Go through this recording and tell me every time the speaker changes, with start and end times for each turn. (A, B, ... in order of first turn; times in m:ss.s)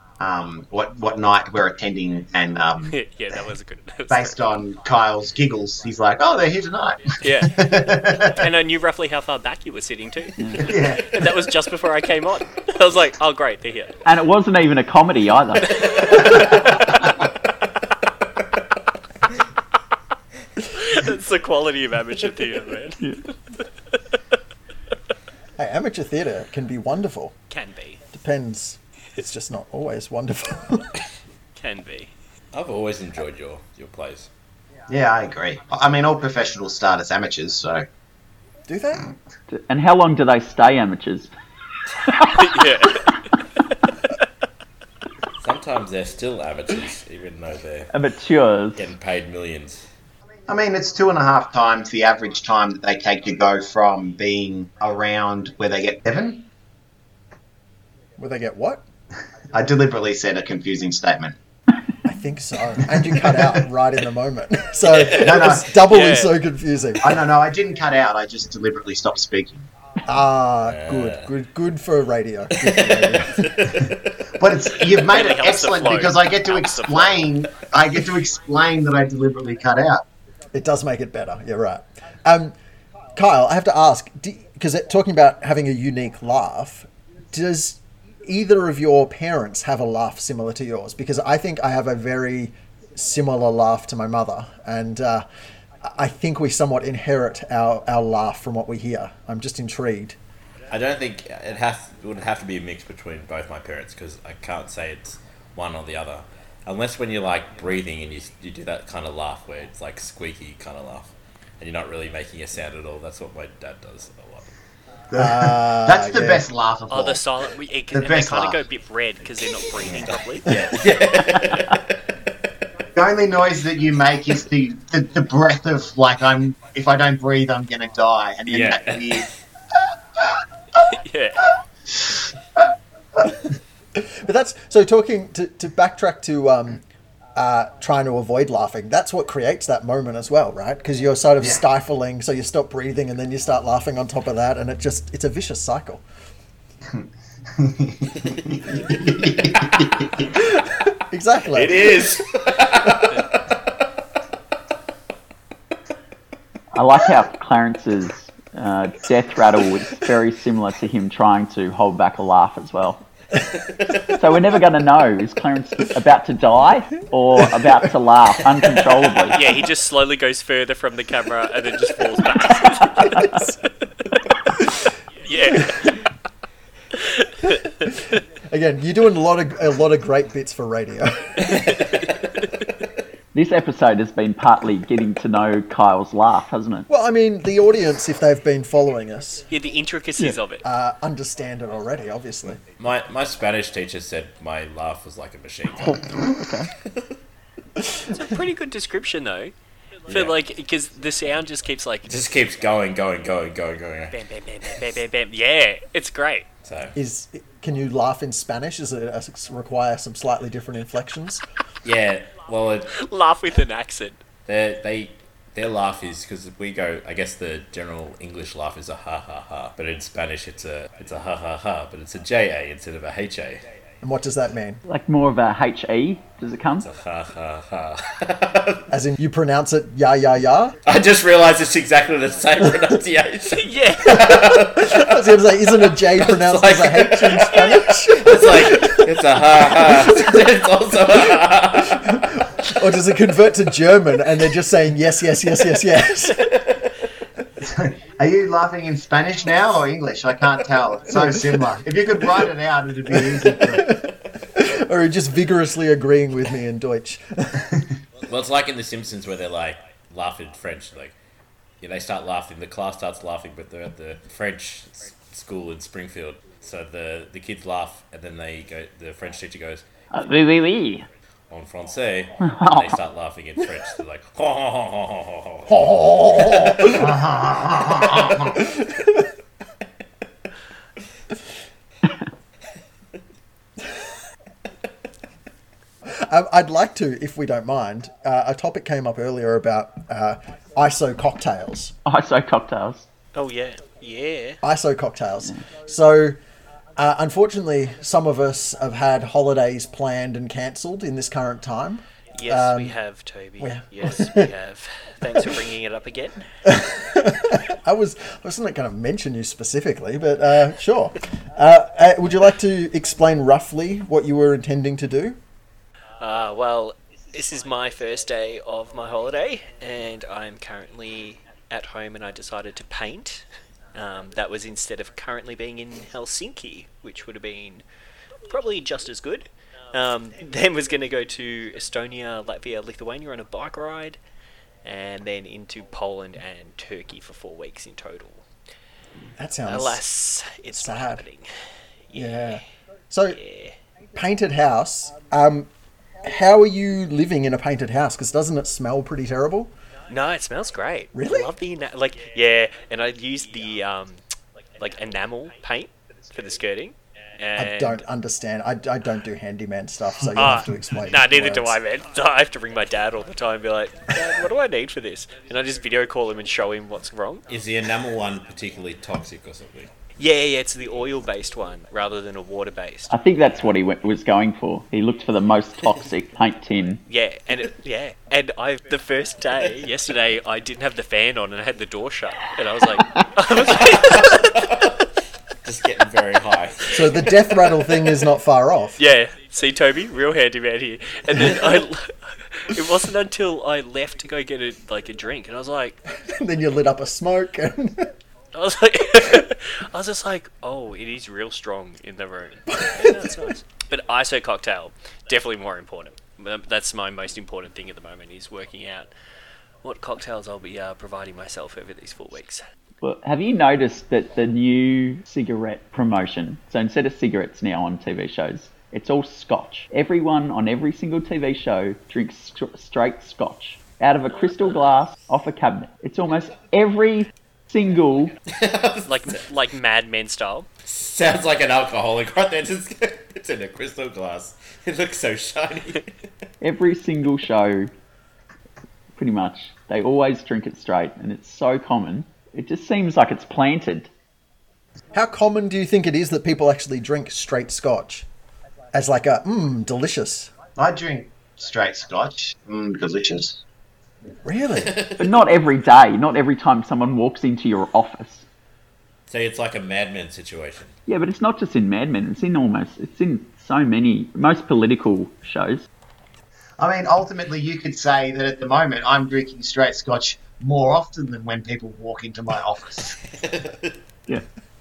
0:00.2-0:03.0 A
0:02.9-0:04.4 B
0:04.1-0:08.4 A
0:07.2-0:14.0 B
0:10.4-0:10.7 C
0:10.6-0:11.2 A
0:14.0-0:16.6 C
0:15.8-0:16.4 B
0:20.7-0:23.1 B
0:25.6-0:27.4 D
0:27.5-0:28.0 B
0:28.1-0:31.0 D
0:31.6-0:32.1 B
0:32.5-0:34.3 E
0:34.9-0:37.9 A
0:38.7-0:39.1 D
0:39.5-0:41.3 C
0:42.1-0:42.6 C
0:42.3-0:43.1 B
0:45.4-0:47.9 E
0:47.9-0:48.9 C
0:48.8-0:49.8 E
0:50.5-0:56.5 A
0:58.2-0:58.8 D
0:59.5-1:01.4 A
1:02.0-1:07.2 D
1:02.8-1:03.6 A
1:05.0-1:06.4 B
1:05.1-1:05.7 A
1:07.0-1:09.7 A
1:10.0-1:13.8 D
1:10.7-1:11.3 E
1:12.6-1:14.0 E
1:13.8-1:20.0 A
1:15.0-1:17.3 B
1:20.5-1:22.6 D
1:23.2-1:35.2 D
1:35.8-1:40.2 D
1:40.7-1:54.5 E
1:55.1-1:57.2 A
1:55.2-1:56.5 D
1:56.9-2:00.6 B
1:57.9-1:58.6 A
2:00.0-2:02.0 E
2:03.0-2:10.4 A
2:08.5-2:09.3 E
2:10.8-2:11.5 B
2:11.9-2:12.7 A
2:14.0-2:16.8 D
2:17.4-2:26.0 D
2:26.9-2:30.3 A
2:30.4-2:32.0 D
2:31.5-2:33.4 E
2:36.7-2:43.0 C
2:44.1-2:49.4 C
2:49.3-2:53.4 B
2:55.2-2:56.0 B
2:57.0-2:57.6 B
2:58.5-3:01.6 D
3:03.3-3:06.9 C
3:06.9-3:09.5 D
3:09.5-3:10.6 B
3:10.6-3:12.6 D
3:12.8-3:16.3 E
3:15.8-3:16.7 C
3:18.1-3:19.5 B
3:20.1-3:22.1 B
3:20.1-3:20.4 E
3:22.1-3:24.2 E
3:24.1-3:26.5 B
3:26.6-3:27.0 E
3:27.0-3:31.4 D
3:31.8-3:32.9 E
3:32.9-3:34.2 B
3:34.5-3:43.6 E
3:44.0-3:44.8 D
3:44.9-3:46.9 C
3:46.8-3:48.9 E
3:48.9-3:50.8 D
3:50.8-3:55.3 E
3:53.6-3:54.4 B
3:54.1-3:59.2 D
3:56.0-4:02.2 E
3:59.7-4:00.5 D
4:01.8-4:06.5 D
4:07.6-4:14.0 A
4:11.1-4:11.6 D
4:13.1-4:17.7 D
4:18.3-4:21.2 E
4:21.8-4:29.9 E
4:30.1-4:31.1 C
4:31.5-4:36.7 E
4:32.4-4:33.0 C
4:35.7-4:37.2 D
4:36.8-4:38.6 A
4:38.0-4:39.3 D
4:46.0-4:51.9 D
4:52.1-4:53.1 C
4:53.4-4:54.6 B
4:54.6-4:56.4 D
4:57.0-5:03.0 D
5:02.4-5:06.4 B
5:03.6-5:04.5 D
5:06.6-5:15.4 D
5:16.2-5:27.8 B
5:28.5-5:34.2 B
5:34.8-5:38.4 B
5:39.4-5:40.0 D
5:39.7-5:41.5 B
5:40.7-5:41.2 D
5:42.1-5:42.5 B
5:42.1-5:43.4 D
5:43.3-5:43.8 B
5:44.2-5:45.7 D
5:46.2-5:49.7 D
5:50.1-5:54.2 B
5:51.1-5:51.5 D
5:54.8-5:58.0 B
5:57.6-6:01.8 D
6:00.4-6:07.4 B
6:07.5-6:09.9 E
6:10.2-6:13.1 B
6:13.1-6:17.0 C
6:17.1-6:24.6 B
6:23.8-6:25.0 E
6:25.6-6:27.3 E
6:26.9-6:29.0 D
6:29.0-6:36.0 B
6:36.1-6:38.1 D
6:38.5-6:49.1 B
6:42.7-6:43.4 D
6:49.8-6:52.6 B
6:53.0-7:08.4 C
7:08.5-7:09.4 E
7:09.1-7:10.7 B
7:10.8-7:16.1 E
7:16.6-7:17.9 C
7:19.2-7:24.1 C
7:25.1-7:28.3 D
7:28.9-7:30.5 D
7:30.8-7:33.6 A
7:34.4-7:35.0 D
7:34.8-7:35.3 E
7:35.2-7:38.4 C
7:39.3-7:41.0 E
7:41.1-7:45.9 C
7:46.8-7:53.2 A
7:53.4-7:53.9 E